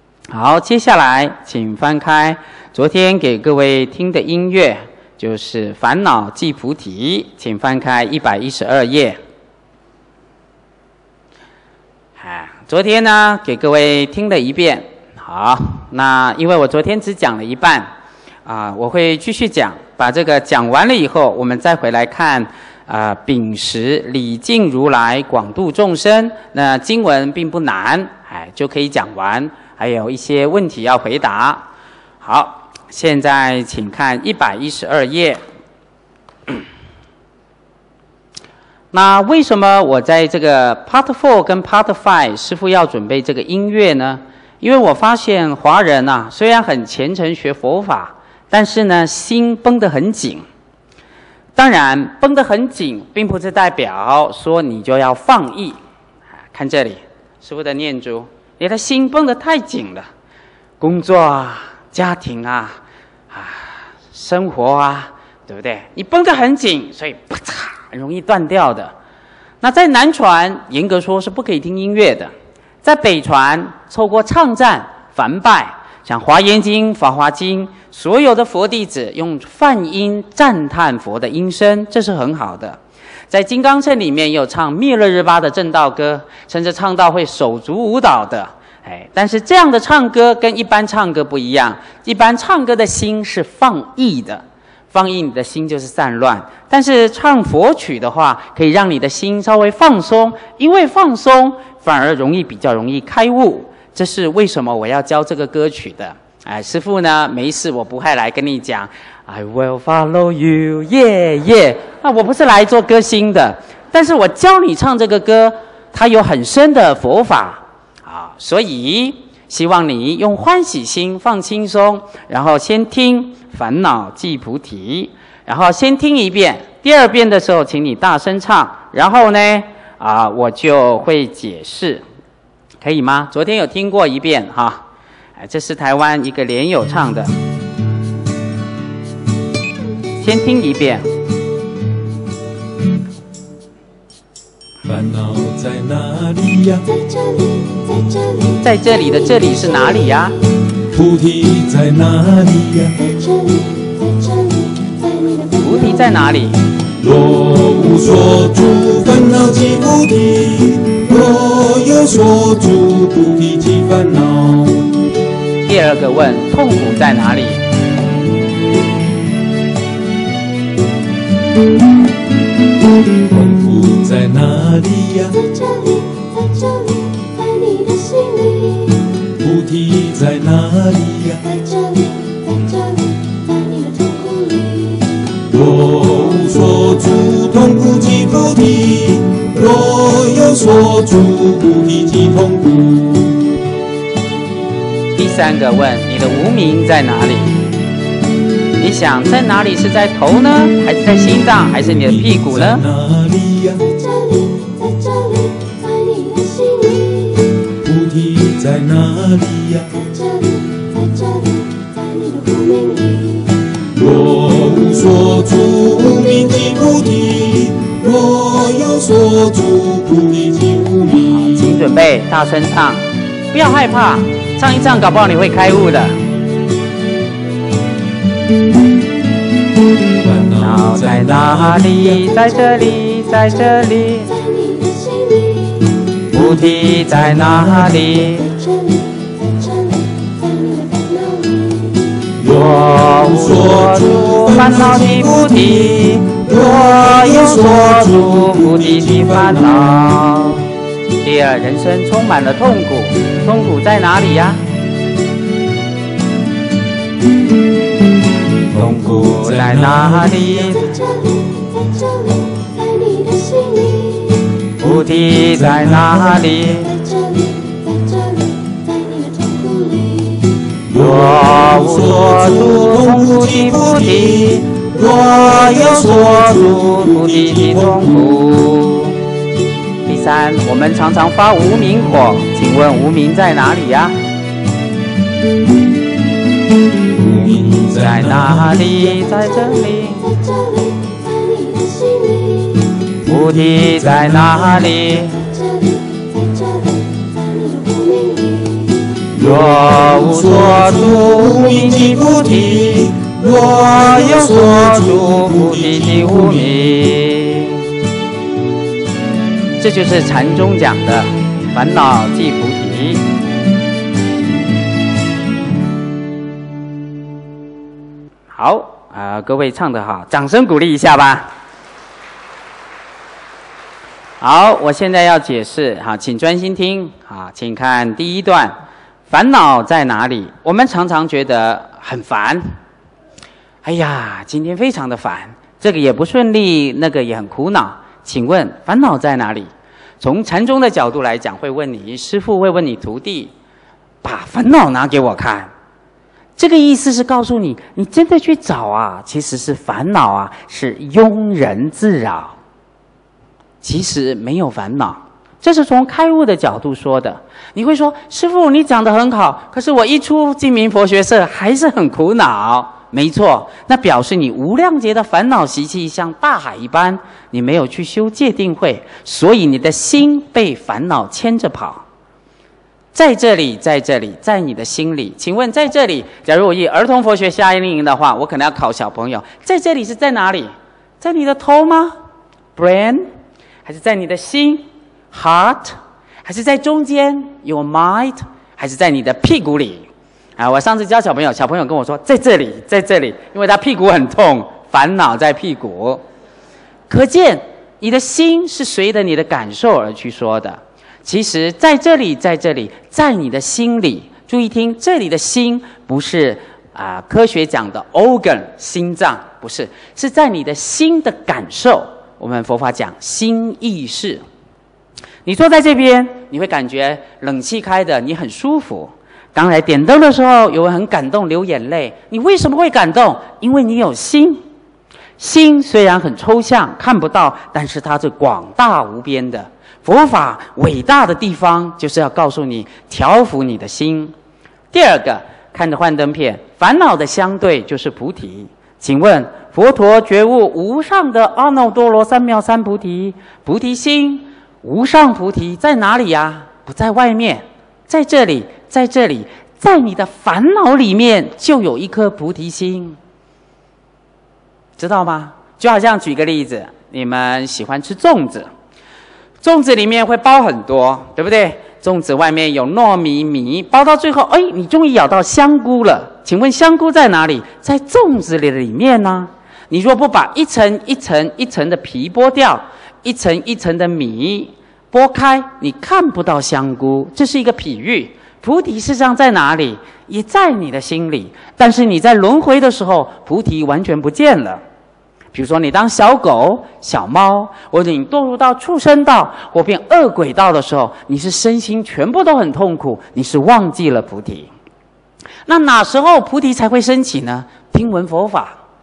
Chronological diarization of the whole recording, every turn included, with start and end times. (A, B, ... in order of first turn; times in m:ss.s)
0:00.3-0:09.2 A
0:12.2-0:17.9 A
0:18.4-0:31.6 A
0:32.2-0:35.4 A
0:38.9-0:50.4 A
0:51.6-0:55.8 A
0:56.5-1:00.1 A
1:00.8-1:02.8 A
1:03.3-1:08.9 A
1:09.6-1:12.3 A
1:12.8-1:22.8 A
1:23.3-2:12.0 A
2:12.8-2:14.8 A
2:15.4-2:17.3 A
2:20.2-2:21.0 A
2:24.8-2:26.8 B
2:26.9-2:29.9 C
2:28.6-2:30.4 A
2:30.9-2:32.9 B
2:33.0-2:36.1 C
2:35.6-2:36.6 A
2:37.0-2:44.9 B
2:45.6-2:47.6 A
2:53.3-2:55.4 B
2:55.4-2:59.0 C
2:59.4-3:01.4 B
3:01.4-3:05.1 C
3:05.5-3:13.4 B
3:15.2-3:17.6 A
3:18.8-3:22.8 A
3:22.0-3:23.8 B
3:23.8-3:27.5 C
3:27.8-3:29.9 B
3:29.9-3:33.6 C
3:33.9-3:41.6 B
3:41.3-3:46.2 A
3:50.2-3:52.2 B
3:50.6-3:54.3 A
3:52.7-3:55.9 C
3:56.3-3:58.4 A
3:56.3-3:57.9 B
3:58.2-4:02.0 C
4:02.4-4:10.0 B
4:02.4-4:10.7 A
4:11.2-4:14.6 A
4:18.7-4:20.6 B
4:18.7-4:20.9 A
4:20.7-4:24.5 C
4:24.8-4:26.9 A
4:25.5-4:26.4 B
4:26.8-4:30.5 C
4:30.9-4:38.2 B
4:30.9-4:39.2 A
4:40.0-4:44.1 A
4:47.1-4:48.9 B
4:47.7-4:50.3 A
4:49.2-4:52.9 C
4:53.2-4:55.4 A
4:53.8-4:54.8 B
4:55.1-4:59.0 C
4:59.3-5:06.7 B
4:59.4-5:07.9 A
5:09.8-5:13.2 A
5:18.5-5:21.5 A
5:24.4-5:28.7 A
5:29.3-5:32.6 A
5:33.8-5:39.7 A
5:40.2-5:43.5 A
5:44.2-5:45.7 A
5:46.6-5:52.6 A
5:53.8-6:12.0 A
6:13.1-6:22.1 A
6:22.8-6:23.2 A
6:23.8-6:30.1 A
6:30.6-6:36.2 A
6:37.1-6:54.4 A
6:55.4-7:04.6 A
7:05.4-7:14.3 A
7:14.9-7:33.2 A
7:35.0-7:38.7 A
7:39.6-8:04.8 A
8:05.5-8:14.7 A
8:15.7-8:18.8 A